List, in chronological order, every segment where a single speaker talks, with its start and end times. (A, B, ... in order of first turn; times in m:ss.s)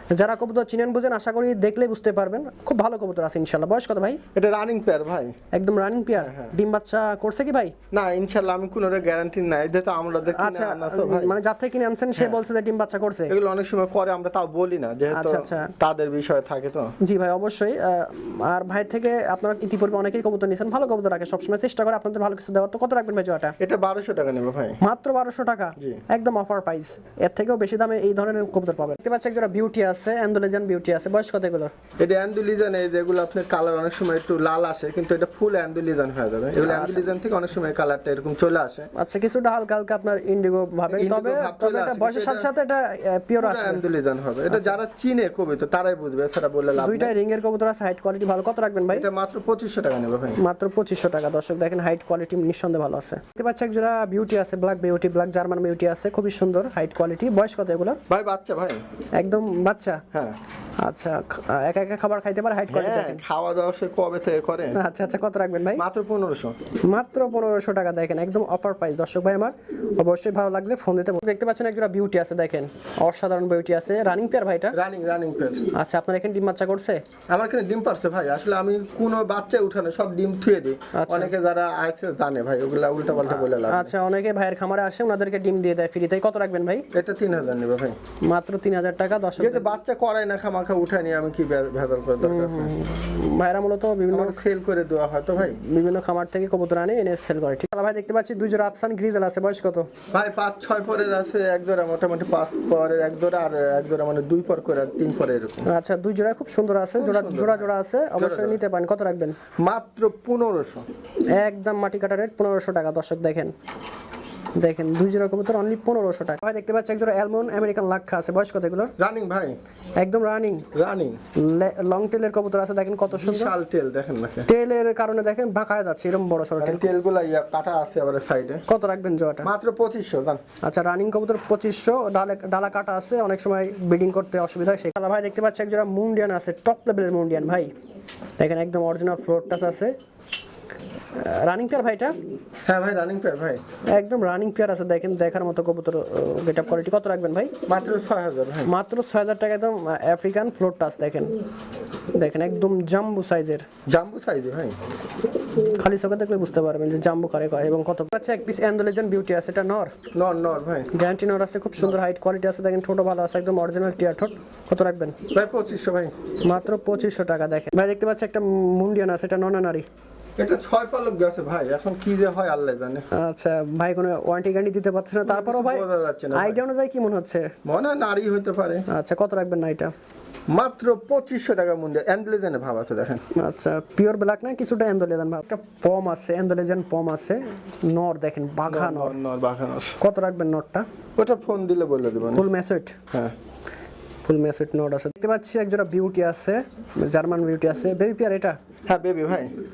0:00.2-0:04.2 A
0:04.4-0:05.4 B
0:05.5-0:07.8 A
0:06.2-0:06.5 B
0:07.9-0:11.4 B
0:10.3-0:13.3 A
0:13.3-0:17.0 B
0:15.1-0:15.7 A
0:17.0-0:23.6 A
0:23.6-0:24.8 B
0:24.8-0:31.7 A
0:32.0-0:38.9 B
0:36.6-0:37.1 A
0:39.0-0:43.8 A
0:40.9-0:42.5 B
0:43.4-0:47.1 B
0:44.5-0:44.8 A
0:46.8-0:49.1 A
0:48.9-0:50.4 B
0:50.4-0:58.0 A
0:58.1-0:58.8 B
0:59.2-1:00.0 A
1:00.8-1:03.2 A
1:02.7-1:04.8 B
1:04.7-1:05.8 A
1:05.8-1:06.6 B
1:06.9-1:14.8 A
1:14.7-1:15.7 B
1:15.8-1:17.0 A
1:17.3-1:23.9 B
1:20.9-1:21.3 A
1:23.2-1:26.9 A
1:26.9-1:28.0 B
1:28.3-1:29.6 A
1:29.4-1:32.7 B
1:32.2-1:34.4 A
1:34.1-1:35.6 B
1:35.4-1:39.9 A
1:40.1-1:45.7 B
1:45.7-1:49.4 A
1:47.0-1:48.6 B
1:49.6-1:50.8 B
1:51.3-1:53.5 A
1:54.6-1:58.9 A
1:59.0-1:59.6 B
2:00.0-2:00.7 A
2:00.7-2:01.2 B
2:01.4-2:03.5 A
2:03.1-2:04.5 B
2:04.5-2:06.8 A
2:06.6-2:08.6 B
2:08.7-2:09.5 A
2:09.4-2:10.4 B
2:10.6-2:17.8 A
2:18.4-2:19.9 A
2:21.2-2:22.2 A
2:22.7-2:23.6 B
2:23.9-2:27.5 A
2:27.7-2:28.7 B
2:28.6-2:31.4 A
2:32.1-2:33.7 A
2:33.9-2:34.8 B
2:35.6-2:39.9 A
2:40.1-2:40.9 B
2:40.9-2:45.2 A
2:45.3-2:46.2 B
2:46.4-2:49.9 A
2:50.4-2:53.1 B
2:53.1-2:57.5 A
2:55.2-2:56.6 B
2:57.6-2:58.8 B
2:58.9-2:59.9 A
3:00.5-3:03.2 B
3:03.3-3:09.2 A
3:08.7-3:10.0 B
3:10.0-3:10.9 A
3:11.2-3:12.5 B
3:12.3-3:13.0 A
3:14.2-3:18.6 A
3:18.9-3:19.5 B